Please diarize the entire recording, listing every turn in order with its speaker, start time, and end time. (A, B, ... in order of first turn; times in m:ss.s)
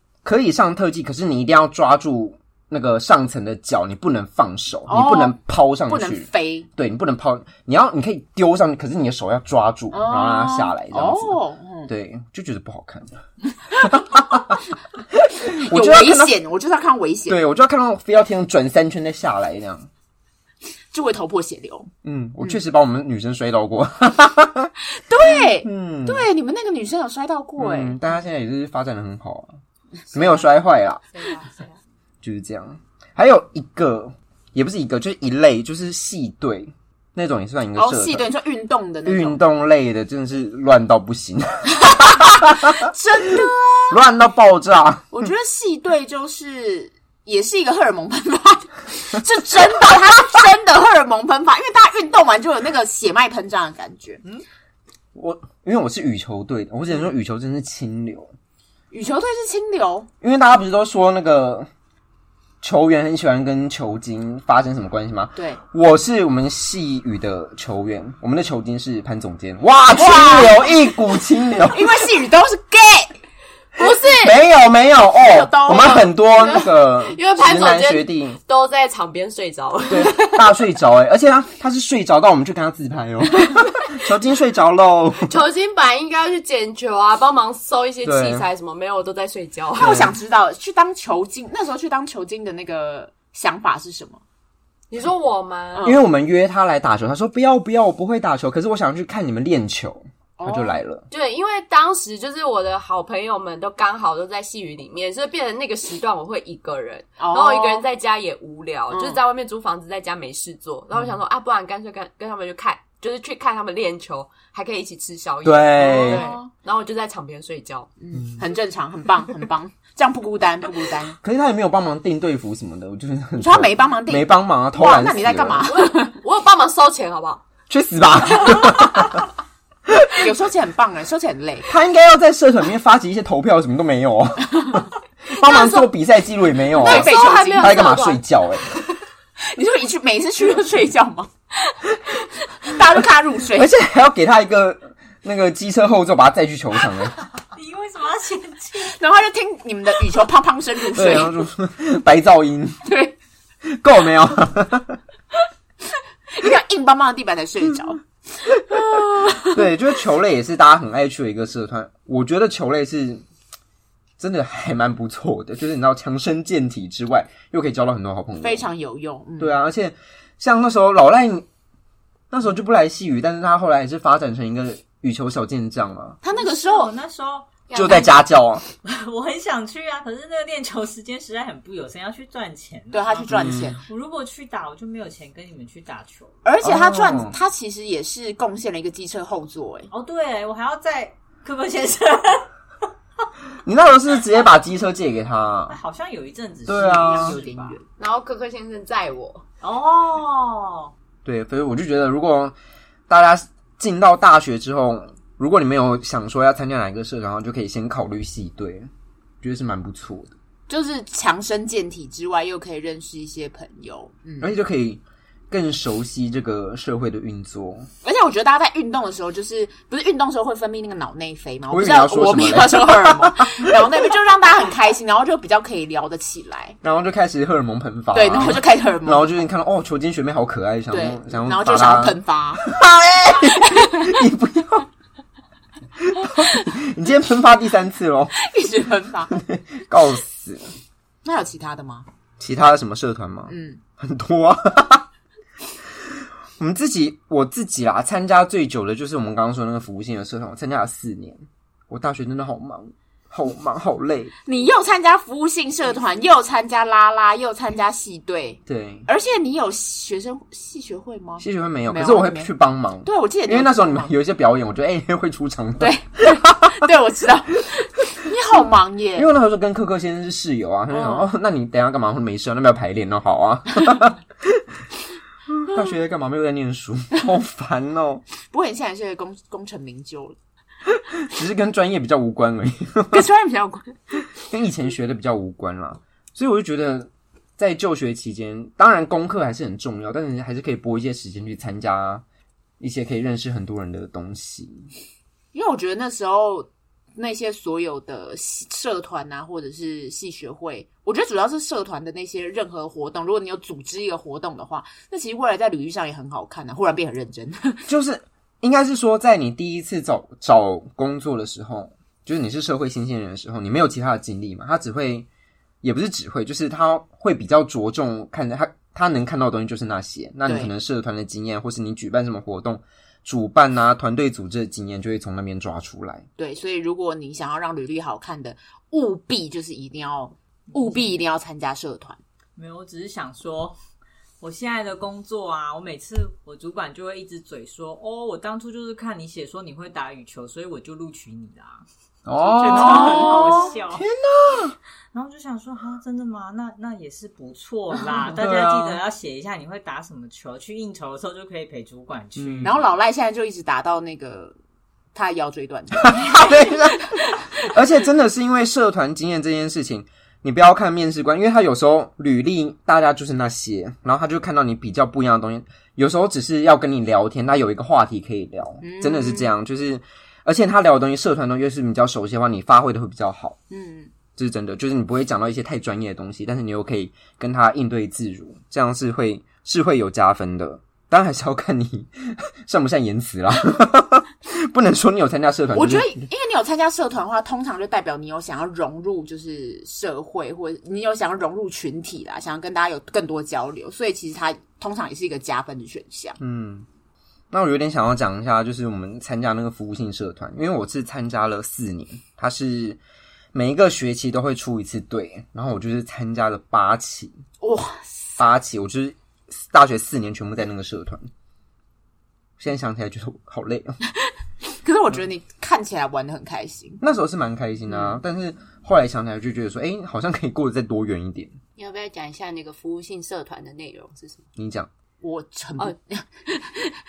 0:00.2-0:13.2 A
0:04.9-0:06.7 B
0:09.9-0:11.9 B
0:13.7-0:14.6 A
0:13.7-0:14.5 B
0:15.1-0:16.3 A
0:15.4-0:17.4 B
0:17.3-0:19.9 A
0:20.9-0:21.9 B
0:22.0-0:26.3 A
0:25.0-0:28.0 B
0:27.6-0:29.6 A
0:30.1-0:30.5 B
0:30.1-0:31.0 A
0:31.1-0:31.6 B
0:32.2-0:38.2 A
0:37.8-0:39.4 B
0:39.0-0:42.9 A
0:41.8-0:44.0 B
0:43.9-0:45.1 A
0:45.1-0:54.2 B
0:55.1-0:58.3 A
0:58.9-1:00.1 B
1:00.2-1:01.7 A
1:02.6-1:11.9 A
1:09.9-1:10.7 B
1:11.7-1:13.2 B
1:13.8-1:14.4 C
1:13.8-1:18.4 A
1:15.2-1:16.2 B
1:16.4-1:20.4 C
1:19.9-1:25.4 A
1:25.2-1:30.1 C
1:28.0-1:28.4 A
1:29.8-1:34.2 B
1:29.8-1:30.1 A
1:34.9-1:35.9 C
1:35.7-1:36.0 B
1:35.8-1:41.0 A
1:40.4-1:40.8 B
1:41.1-1:57.9 C
1:47.2-1:47.8 B
1:48.9-1:49.2 B
1:55.4-1:56.2 A
1:56.0-1:56.5 B
1:58.0-2:01.2 B
2:01.2-2:05.7 A
2:03.4-2:06.1 B
2:05.7-2:07.4 C
2:07.7-2:09.2 A
2:09.9-2:10.2 A
2:10.1-2:11.7 B
2:11.7-2:18.6 A
2:15.4-2:15.9 C
2:16.7-2:18.2 C
2:16.8-2:17.8 B
2:19.4-2:21.3 B
2:22.1-2:23.7 B
2:23.5-2:27.2 A
2:27.5-2:29.0 D
2:28.8-2:31.4 B
2:30.9-2:32.8 A
2:32.8-2:33.1 B
2:33.6-2:35.0 A
2:36.3-2:39.7 B
2:39.4-2:43.2 A
2:44.2-2:48.6 A
2:48.4-2:49.5 B
2:49.4-2:51.4 A
2:52.3-2:56.2 A
2:56.2-2:56.9 B
2:56.3-2:58.0 D
2:57.7-2:58.2 C
2:57.7-2:58.6 A
2:58.8-3:06.4 D
3:02.9-3:03.8 B
3:03.3-3:03.7 A
3:06.4-3:09.9 B
3:06.6-3:07.3 A
3:09.9-3:12.5 D
3:13.6-3:15.8 A
3:15.7-3:17.8 D
3:16.6-3:17.4 A
3:16.7-3:17.8 B
3:18.0-3:19.4 C
3:19.6-3:20.9 D
3:21.2-3:22.5 A
3:23.1-3:28.9 A
3:29.4-3:30.3 A
3:30.7-3:34.5 B
3:34.4-3:37.9 A
3:38.0-3:46.8 B
3:41.7-3:43.8 A
3:46.8-3:54.9 A
3:48.1-3:49.3 B
3:50.9-3:52.7 B
3:53.6-3:54.1 B
3:56.0-3:58.4 A
3:58.4-3:59.3 B
3:59.3-4:00.7 A
4:01.2-4:02.1 B
4:02.4-4:05.0 A
4:03.5-4:03.8 B
4:05.9-4:14.3 A
4:14.4-4:22.5 B
4:18.7-4:19.1 A
4:21.4-4:26.8 A
4:23.0-4:24.1 B
4:25.8-4:29.3 B
4:29.2-4:34.6 A
4:30.9-4:31.3 B
4:35.5-4:38.2 A
4:38.5-4:40.4 B
4:41.1-4:43.2 A
4:43.1-4:44.0 B
4:44.4-4:52.2 A
4:52.8-4:54.9 A
4:55.5-5:07.8 B
5:07.9-5:15.3 A
5:15.8-5:26.2 A
5:20.4-5:20.7 B
5:26.4-5:32.2 B
5:30.7-5:31.2 D
5:32.6-5:33.8 D
5:34.4-5:41.8 D
5:42.2-5:44.8 A
5:42.4-5:44.0 D
5:42.7-5:43.7 B
5:45.1-5:52.8 D
5:48.4-5:49.0 A
5:52.4-5:52.7 A
5:52.6-5:54.6 B
5:55.1-5:57.2 B
5:56.0-6:13.6 A
6:08.8-6:09.5 B
6:13.7-6:14.1 B
6:14.4-6:26.2 A
6:25.7-6:36.4 B
6:36.4-6:36.8 A
6:37.5-6:43.0 A
6:43.5-6:47.4 A
6:47.6-6:48.4 B
6:48.4-6:51.3 A
6:52.6-6:54.0 A
6:54.8-6:57.0 B
6:57.0-7:01.6 A
6:57.9-6:58.2 B
7:01.8-7:04.4 C
7:04.6-7:04.9 A
7:05.2-7:06.9 B